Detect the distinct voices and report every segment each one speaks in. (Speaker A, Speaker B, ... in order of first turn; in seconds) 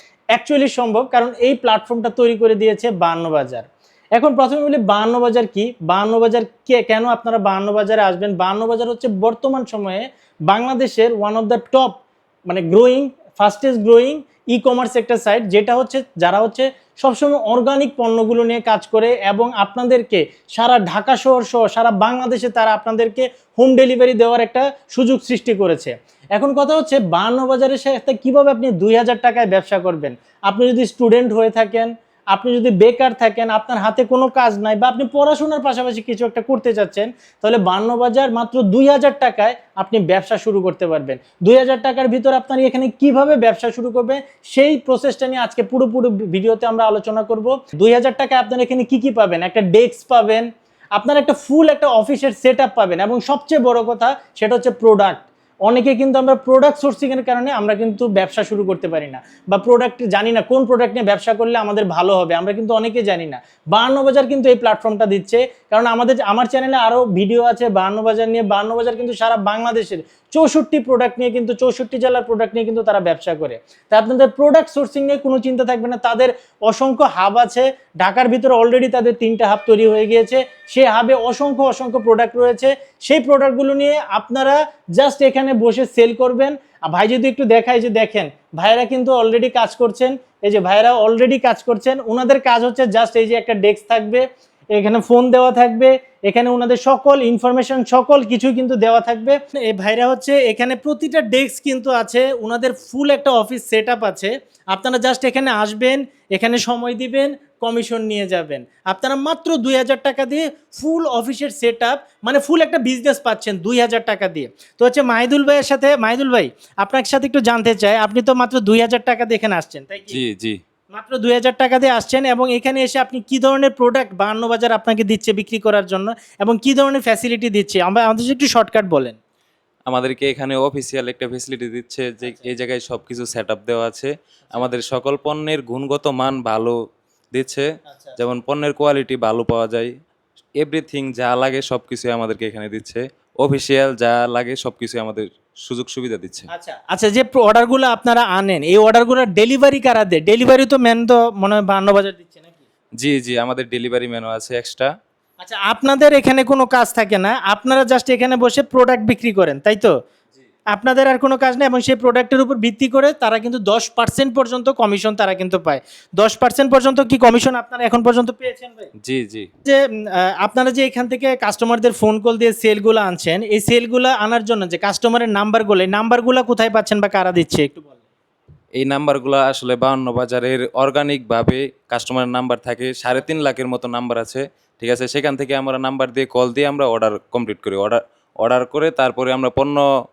Speaker A: 0.3-3.6, 4.2-120.2, 120.9-129.2, 137.9-138.2, 146.5-152.6, 155.4-159.9, 160.7-168.9, 169.6-178.0
Speaker B: 120.1-120.6, 129.9-136.7, 137.3-137.6, 138.2-139.9, 140.6-146.5, 153.0-154.9, 169.1-169.5, 178.8-189.8